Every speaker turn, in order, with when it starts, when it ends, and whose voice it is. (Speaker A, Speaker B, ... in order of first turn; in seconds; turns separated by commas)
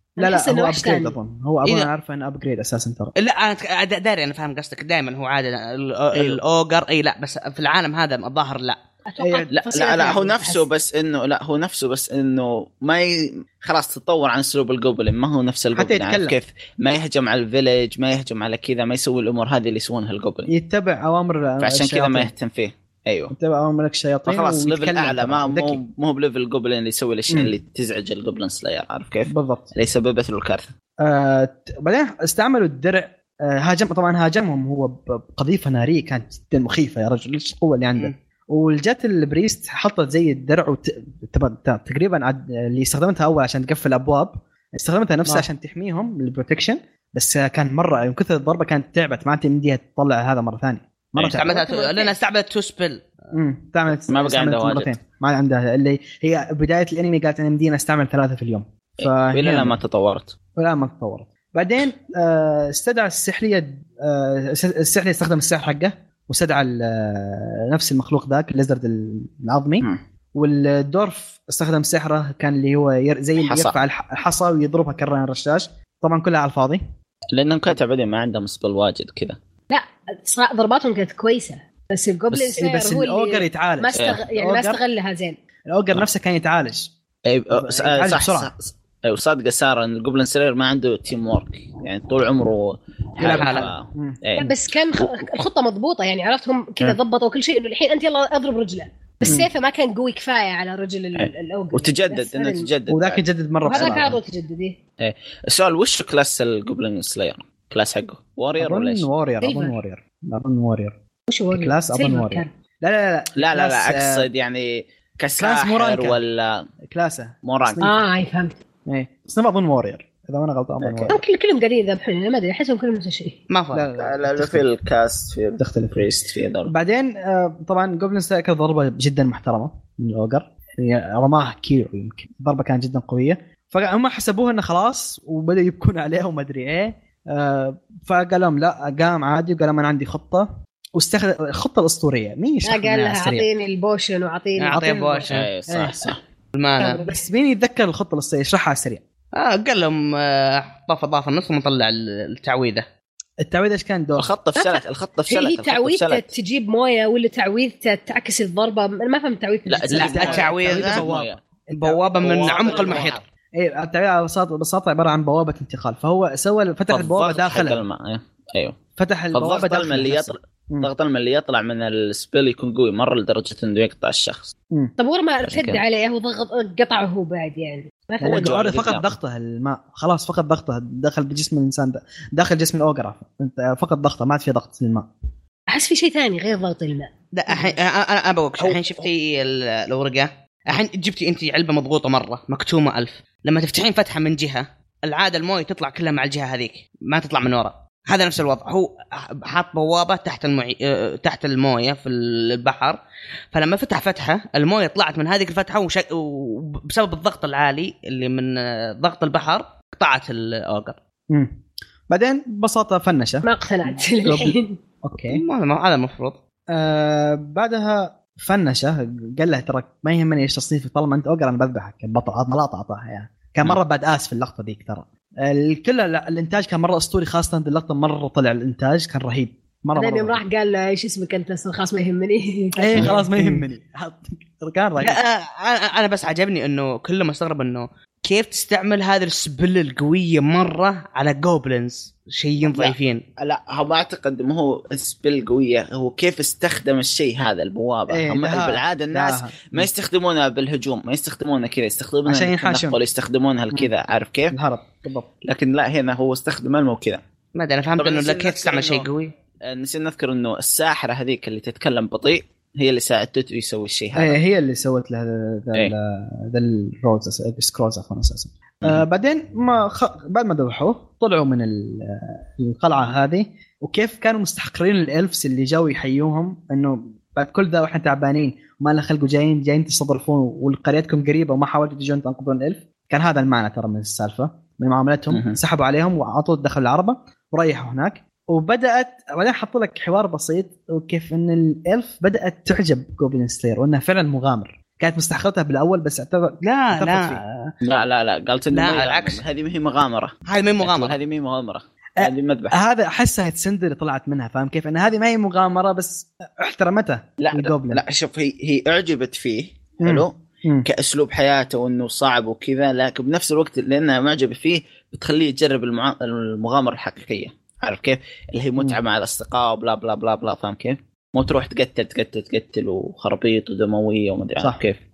Speaker A: 0.2-1.2, Speaker B: 0.2-3.1, Speaker C: 3.2-8.8, Speaker D: 6.1-6.4, Speaker A: 9.1-10.7, Speaker B: 9.2-9.5, Speaker D: 9.5-20.5, Speaker B: 15.8-16.4, Speaker B: 20.5-22.3, Speaker D: 21.6-23.3, Speaker B: 23.3-25.8, Speaker D: 24.3-30.7, Speaker B: 27.3-27.5, Speaker B: 29.3-29.7, Speaker B: 31.0-52.0, Speaker D: 51.2-51.4, Speaker C: 51.3-53.1, Speaker A: 51.6-52.1, Speaker B: 53.3-59.8, Speaker D: 54.0-54.9, Speaker D: 59.0-60.4, Speaker B: 60.6-76.8, Speaker D: 73.4-73.8, Speaker D: 77.3-79.4, Speaker A: 79.7-85.4, Speaker B: 82.3-84.8, Speaker D: 84.0-84.2, Speaker B: 85.7-86.9, Speaker D: 87.3-95.2, Speaker B: 87.5-88.5, Speaker B: 93.2-94.2, Speaker C: 93.2-93.7, Speaker A: 94.3-102.7, Speaker D: 101.2-104.1, Speaker B: 102.9-104.2, Speaker A: 103.7-104.8, Speaker D: 105.0-109.1, Speaker B: 108.6-111.0, Speaker A: 109.4-109.8, Speaker A: 111.3-112.5, Speaker B: 111.5-114.3, Speaker D: 113.4-116.6, Speaker B: 115.4-116.2, Speaker B: 116.9-118.0, Speaker D: 117.4-117.9, Speaker A: 117.8-118.6, Speaker B: 118.9-121.2, Speaker D: 120.8-121.2, Speaker A: 121.1-123.4, Speaker C: 123.5-123.9, Speaker B: 123.7-124.6, Speaker D: 124.0-126.7, Speaker B: 125.6-126.1, Speaker B: 126.7-143.5, Speaker A: 142.7-144.8, Speaker C: 144.6-145.5, Speaker B: 144.7-146.1, Speaker D: 145.3-146.2, Speaker C: 146.5-147.0, Speaker A: 146.8-147.2, Speaker B: 147.0-149.0, Speaker C: 149.4-152.9, Speaker B: 153.4-154.3, Speaker D: 154.2-156.3, Speaker A: 154.6-160.3, Speaker D: 159.7-161.4, Speaker C: 159.9-161.0, Speaker B: 159.9-167.8, Speaker C: 161.8-163.2, Speaker D: 162.2-163.3, Speaker D: 166.9-168.8, Speaker B: 169.0-170.9, Speaker D: 169.3-174.5, Speaker A: 175.0-178.5, Speaker D: 175.4-175.8, Speaker B: 178.2-185.1, Speaker D: 178.2-179.1, Speaker A: 185.7-187.1, Speaker C: 187.3-203.0, Speaker B: 188.6-189.0, Speaker C: 203.5-211.0, Speaker B: 211.3-213.5, Speaker A: 213.4-214.8, Speaker B: 214.2-215.4, Speaker C: 215.3-216.4, Speaker B: 216.7-230.4, Speaker A: 229.9-233.1, Speaker B: 232.8-235.2, Speaker C: 233.2-233.7, Speaker C: 235.0-243.2, Speaker D: 242.7-254.6, Speaker B: 248.1-249.9, Speaker B: 252.3-253.0, Speaker B: 254.5-255.3, Speaker D: 255.4-257.2, Speaker C: 257.6-259.3, Speaker D: 258.0-259.1, Speaker D: 259.6-264.4, Speaker B: 264.2-297.7, Speaker D: 285.3-285.6, Speaker C: 296.6-297.4, Speaker D: 297.8-302.8, Speaker C: 298.7-299.4, Speaker C: 300.5-301.2, Speaker B: 302.2-308.0, Speaker D: 307.4-325.0, Speaker B: 310.0-310.9